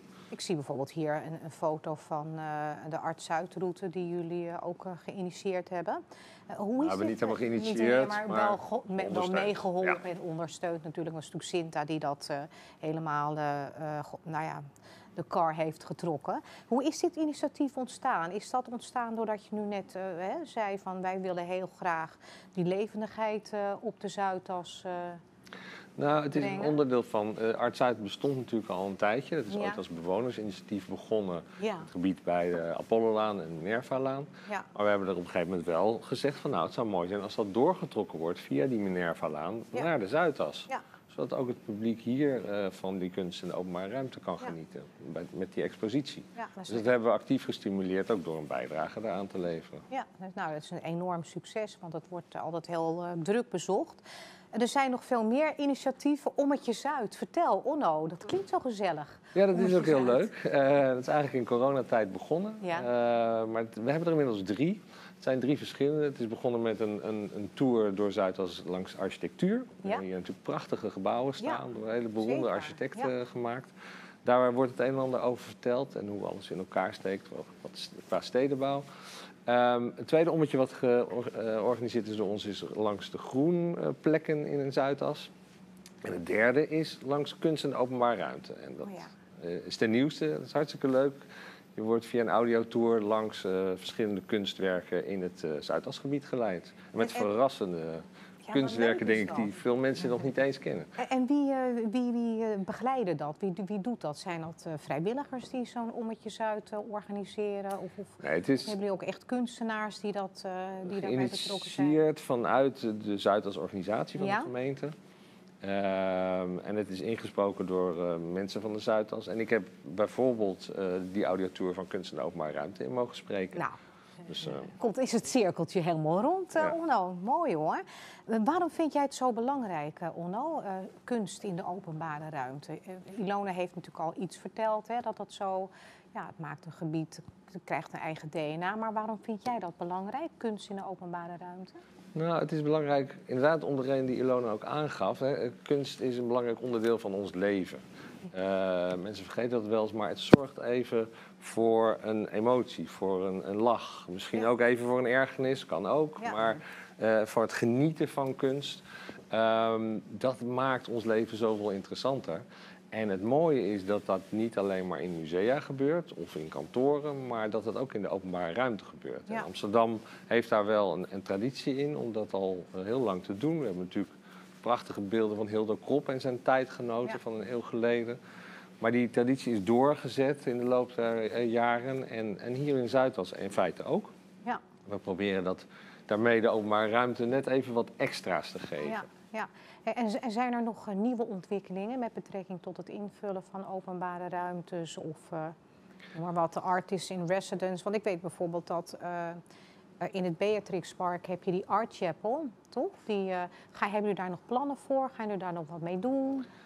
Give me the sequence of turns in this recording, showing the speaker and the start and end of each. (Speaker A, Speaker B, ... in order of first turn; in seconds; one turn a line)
Speaker A: 0.3-25.2
Speaker B: 6.8-10.0
Speaker B: 26.0-49.9
Speaker A: 26.3-26.8
Speaker A: 29.5-29.8
Speaker A: 31.6-31.9
Speaker A: 46.4-46.9
Speaker A: 49.9-60.3
Speaker B: 59.4-73.7
Speaker A: 62.6-62.9
Speaker A: 72.2-73.1
Speaker B: 74.2-78.9
Speaker B: 79.5-85.3
Speaker B: 86.0-91.2
Speaker A: 88.8-89.1
Speaker B: 91.8-100.9
Speaker A: 97.0-97.3
Speaker A: 98.4-99.5
Speaker A: 101.0-112.0
Speaker B: 108.2-108.8
Speaker B: 110.9-115.0
Speaker A: 114.2-114.5
Speaker B: 115.6-123.7
Speaker B: 124.2-124.7
Speaker A: 124.7-141.8
Speaker B: 142.1-174.1
Speaker B: 174.6-178.2
Speaker B: 178.8-184.1
Speaker B: 184.9-189.0
Speaker A: 188.8-195.6
Speaker A: 196.1-199.4
Speaker A: 200.0-206.5